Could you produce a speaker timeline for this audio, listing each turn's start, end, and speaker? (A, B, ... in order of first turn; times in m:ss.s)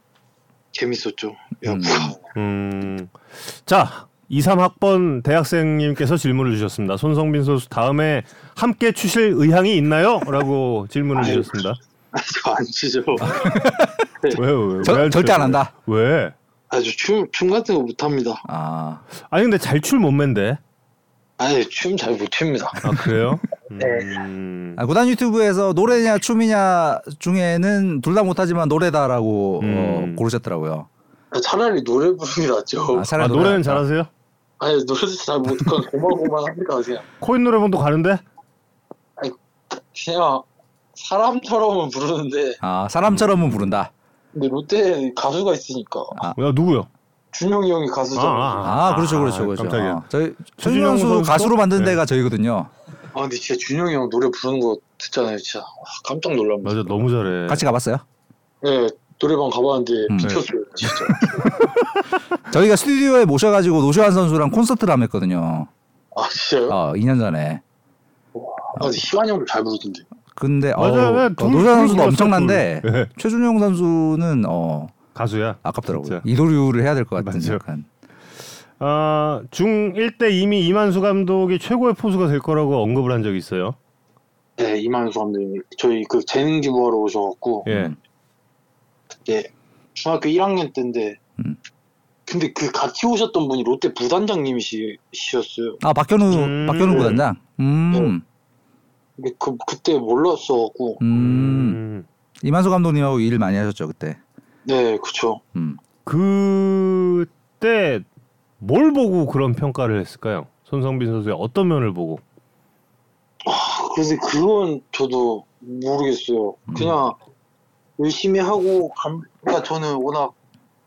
0:00.7-0:02.2 A
0:01.6-0:02.1 B
0:02.3-0:11.8 C
0:11.2-0:11.6 A
0:12.1-0:13.5 A
0:13.2-0:14.1 B
0:14.3-0:16.3 C
0:14.8-0:15.7 B
0:16.7-0:18.4 A
0:18.5-0:19.0 B
0:19.3-0:20.6 C
0:21.4-0:22.9 A
0:22.8-0:24.8 C
0:23.8-0:24.2 A
0:24.8-0:30.9 B
0:29.6-0:30.2 C
0:31.3-0:33.1 A
0:32.9-0:33.8 B
0:33.2-0:34.1 C
0:34.6-0:37.0 A
0:37.2-0:38.2 C
0:39.2-0:42.6 A
0:42.6-0:43.9 B
0:43.1-0:43.7 C
0:44.3-0:46.3 A
0:46.4-0:46.9 C
0:47.3-0:48.7 A
0:48.1-0:50.0 C
0:48.6-0:52.7 B
0:50.6-0:52.0 C
0:53.1-0:57.0 A
0:56.6-0:57.6 C
0:57.5-0:58.0 B
0:58.6-1:01.4 A
1:00.1-1:00.4 B
1:01.4-1:01.8 C
1:02.5-1:05.7 B
1:06.1-1:06.8 A
1:06.7-1:07.6 B
1:08.3-1:10.0 A
1:10.3-1:15.0 B
1:10.8-1:13.1 C
1:15.1-1:16.2 C
1:15.6-1:17.9 B
1:17.2-1:17.6 C
1:18.8-1:23.8 C
1:24.6-1:27.7 A
1:27.6-1:28.0 B
1:27.7-1:27.9 C
1:29.2-1:31.2 A
1:32.2-1:35.8 A
1:35.8-1:38.2 B
1:36.3-1:37.2 C
1:36.8-1:37.2 A
1:39.2-1:41.0 A
1:41.0-1:41.8 B
1:41.1-1:42.1 C
1:42.4-1:44.2 B
1:44.6-1:45.4 A
1:45.5-1:45.8 B
1:46.0-1:48.0 C
1:48.6-1:52.2 C
1:53.4-1:57.2 A
1:56.7-1:57.0 B
1:58.0-2:00.3 A